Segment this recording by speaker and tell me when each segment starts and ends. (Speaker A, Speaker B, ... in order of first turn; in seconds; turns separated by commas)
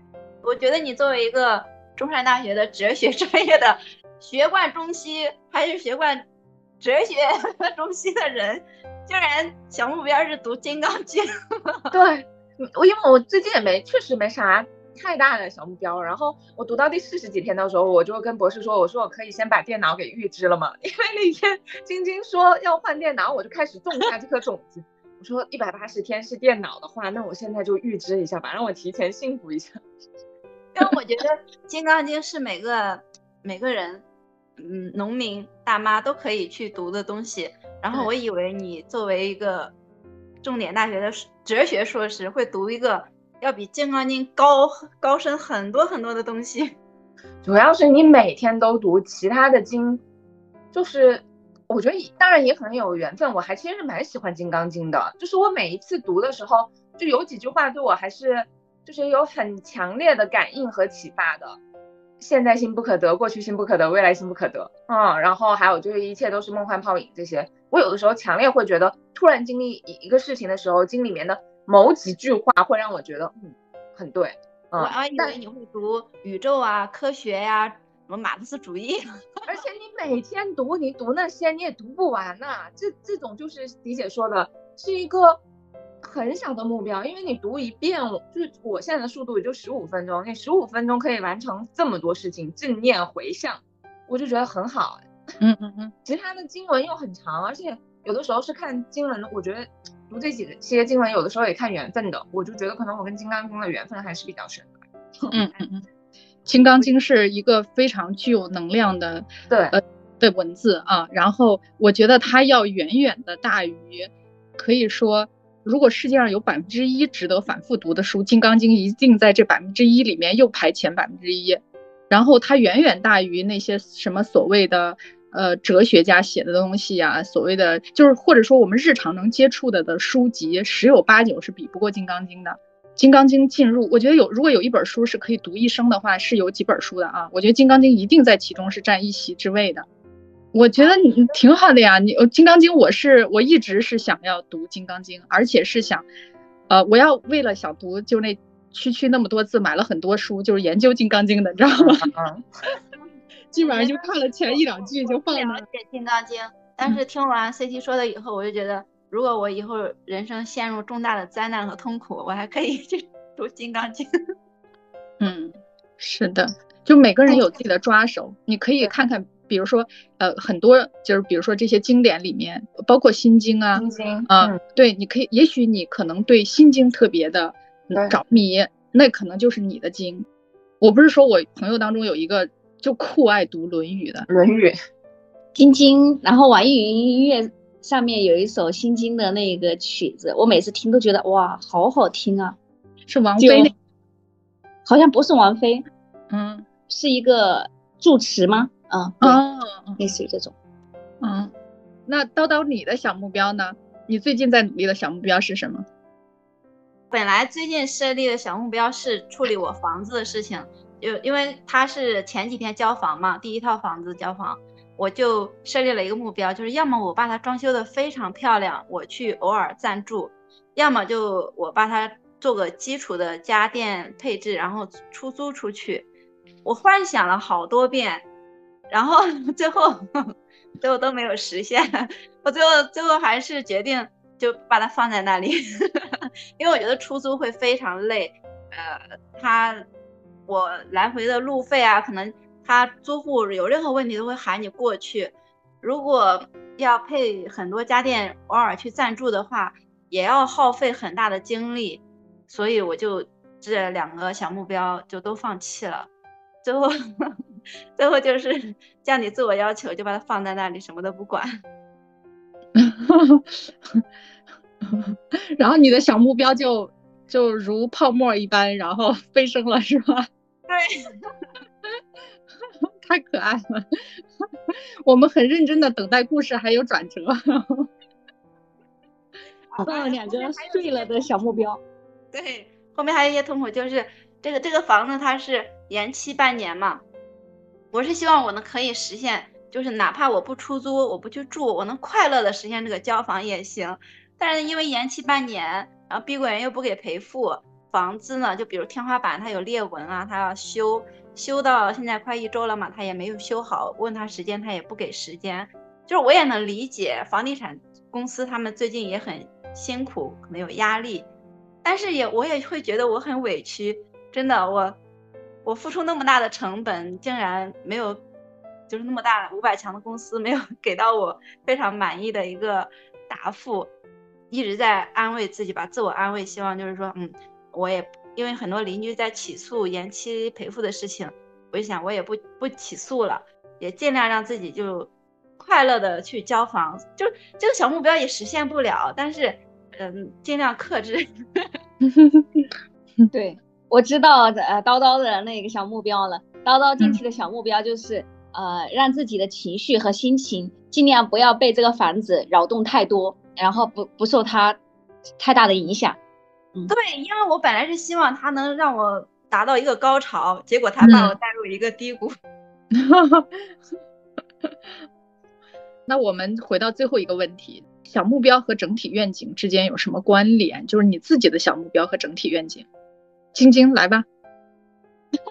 Speaker A: 0.4-6.2, Speaker A: 6.8-11.9, Speaker B: 11.9-29.7, Speaker A: 30.7-34.0, Speaker A: 34.6-39.7, Speaker A: 40.4-46.7, Speaker B: 47.4-50.0, Speaker B: 50.7-61.6, Speaker B: 62.2-75.3, Speaker A: 74.8-79.0, Speaker B: 79.5-85.4, Speaker B: 86.0-95.0, Speaker C: 95.4-95.9, Speaker B: 96.0-105.6, Speaker C: 105.3-105.8, Speaker C: 106.5-139.8, Speaker B: 109.5-109.8, Speaker C: 140.5-146.1, Speaker C: 146.7-152.1, Speaker B: 151.8-152.4, Speaker C: 153.5-155.6, Speaker A: 153.6-164.1, Speaker C: 165.2-180.2, Speaker B: 167.3-167.5, Speaker B: 173.7-174.6, Speaker C: 180.8-184.2, Speaker B: 184.3-184.7, Speaker D: 185.5-192.6, Speaker C: 193.1-193.7, Speaker D: 193.4-193.7, Speaker D: 194.8-195.8, Speaker C: 196.3-196.6, Speaker D: 196.9-199.4, Speaker C: 199.2-200.0, Speaker D: 200.0-200.5, Speaker C: 201.2-201.5, Speaker C: 202.1-205.8, Speaker A: 207.1-226.1, Speaker A: 226.6-228.2, Speaker A: 228.9-230.1, Speaker A: 230.8-239.8, Speaker A: 240.5-256.1, Speaker A: 256.6-257.4, Speaker A: 258.0-261.6, Speaker C: 262.7-264.0, Speaker C: 264.8-270.3, Speaker A: 270.7-271.1, Speaker C: 273.0-273.8, Speaker C: 275.0-277.9, Speaker A: 279.7-281.6, Speaker D: 279.8-281.8, Speaker A: 282.3-287.0, Speaker A: 287.9-311.3, Speaker A: 311.8-315.0, Speaker A: 315.6-318.2, Speaker A: 318.9-323.9, Speaker A: 324.5-341.7, Speaker C: 342.0-342.7, Speaker D: 343.3-354.8, Speaker D: 355.4-356.2, Speaker A: 356.9-362.4, Speaker C: 361.0-361.4, Speaker C: 362.9-363.6, Speaker C: 366.1-372.9, Speaker C: 373.5-374.2